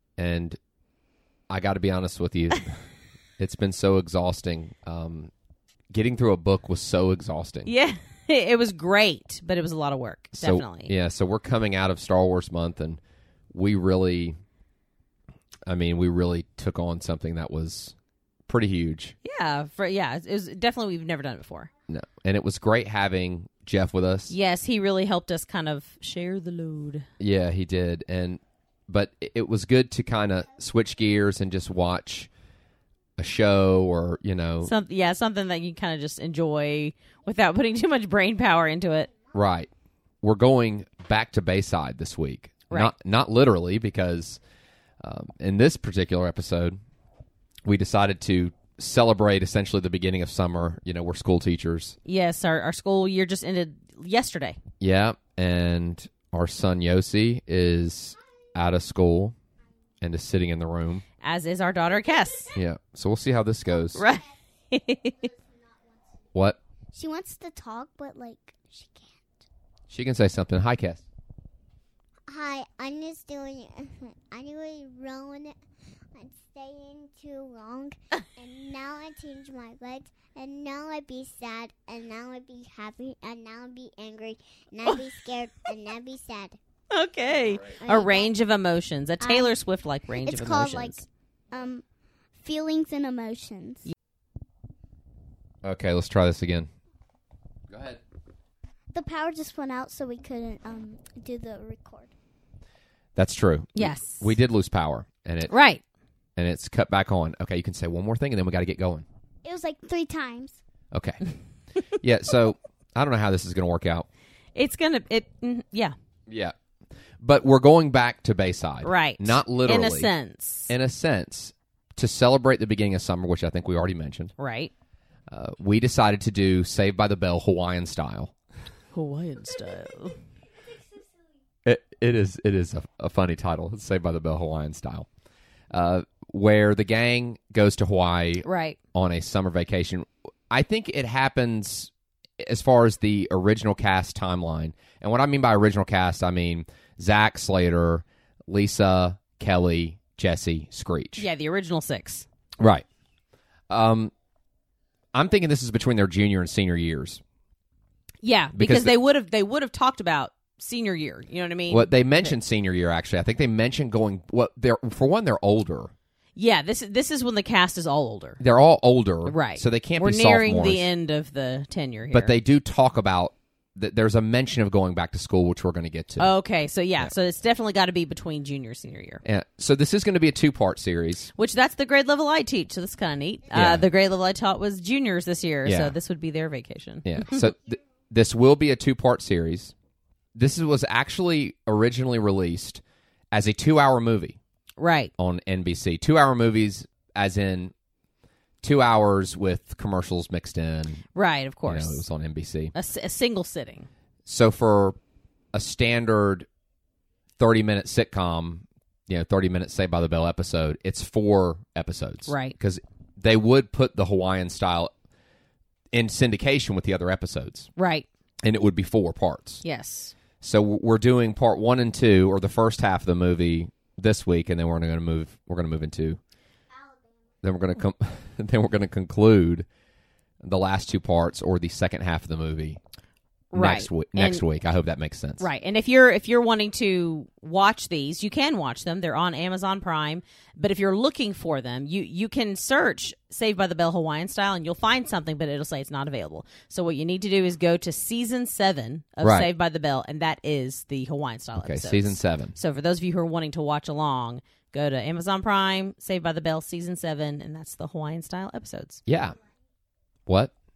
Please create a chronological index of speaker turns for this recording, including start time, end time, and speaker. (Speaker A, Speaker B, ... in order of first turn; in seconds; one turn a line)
Speaker A: 0.2-0.6
Speaker A: 1.5-2.8
Speaker A: 3.4-5.3
Speaker A: 5.9-7.7
Speaker B: 7.7-10.9
Speaker A: 10.3-13.0
Speaker A: 13.5-14.4
Speaker A: 15.7-17.9
Speaker A: 18.5-19.1
Speaker B: 19.2-21.7
Speaker A: 21.9-24.3
Speaker B: 24.3-27.1
Speaker A: 27.2-32.3
Speaker A: 33.2-34.7
Speaker B: 34.6-39.1
Speaker A: 39.3-39.7
Speaker A: 40.2-44.4
Speaker A: 45.0-46.8
Speaker A: 47.6-52.0
Speaker B: 52.1-54.6
Speaker A: 54.8-59.4
Speaker A: 60.0-61.0
Speaker B: 61.2-62.5
Speaker A: 62.5-64.0
Speaker B: 64.0-65.2
Speaker C: 65.2-66.0
Speaker C: 66.9-69.3
Speaker A: 69.9-71.0
Speaker C: 72.3-75.6
Speaker C: 76.1-86.6
Speaker B: 86.9-91.0
Speaker C: 87.8-88.3
Speaker C: 89.2-89.5
Speaker C: 90.1-91.8
Speaker C: 92.4-93.9
Speaker A: 95.6-96.7
Speaker A: 97.7-98.0
Speaker C: 98.9-102.1
Speaker A: 103.2-105.5
Speaker B: 103.8-104.3
Speaker B: 105.5-105.8
Speaker A: 106.4-109.0
Speaker C: 109.4-110.6
Speaker A: 110.9-111.2
Speaker A: 112.0-114.1
Speaker B: 114.5-116.0
Speaker A: 116.3-116.5
Speaker A: 117.2-120.1
Speaker B: 118.8-120.7
Speaker A: 120.7-124.3
Speaker B: 124.4-124.7
Speaker A: 125.3-128.3
Speaker B: 128.9-130.2
Speaker A: 131.7-135.1
Speaker A: 135.7-151.2
Speaker B: 138.4-138.8
Speaker B: 151.2-152.3
Speaker A: 152.6-152.8
Speaker A: 153.7-154.1
Speaker A: 155.1-157.2
Speaker B: 158.2-162.3
Speaker A: 158.5-158.9
Speaker A: 161.7-165.9
Speaker B: 166.4-168.4
Speaker A: 168.4-170.9
Speaker B: 169.3-172.3
Speaker A: 172.1-176.3
Speaker B: 176.2-179.2
Speaker A: 179.2-181.3
Speaker B: 181.4-187.4
Speaker A: 183.5-183.8
Speaker A: 185.7-185.9
Speaker A: 187.1-189.7
Speaker A: 190.4-194.4
Speaker B: 194.8-195.1
Speaker A: 195.2-197.7
Speaker A: 198.6-201.0
Speaker B: 201.2-202.0
Speaker A: 201.7-202.7
Speaker B: 202.7-203.9
Speaker A: 204.3-205.0
Speaker A: 205.5-206.5
Speaker A: 207.4-214.9
Speaker B: 212.3-212.6
Speaker A: 215.9-217.7
Speaker B: 217.8-218.1
Speaker A: 218.4-219.6
Speaker B: 219.6-220.1
Speaker A: 220.4-226.2
Speaker A: 227.4-229.7
Speaker A: 230.4-232.8
Speaker B: 233.5-234.4
Speaker A: 233.5-235.5
Speaker B: 235.4-259.0
Speaker A: 249.2-249.5
Speaker A: 251.6-252.6
Speaker A: 259.1-259.4
Speaker A: 260.3-260.5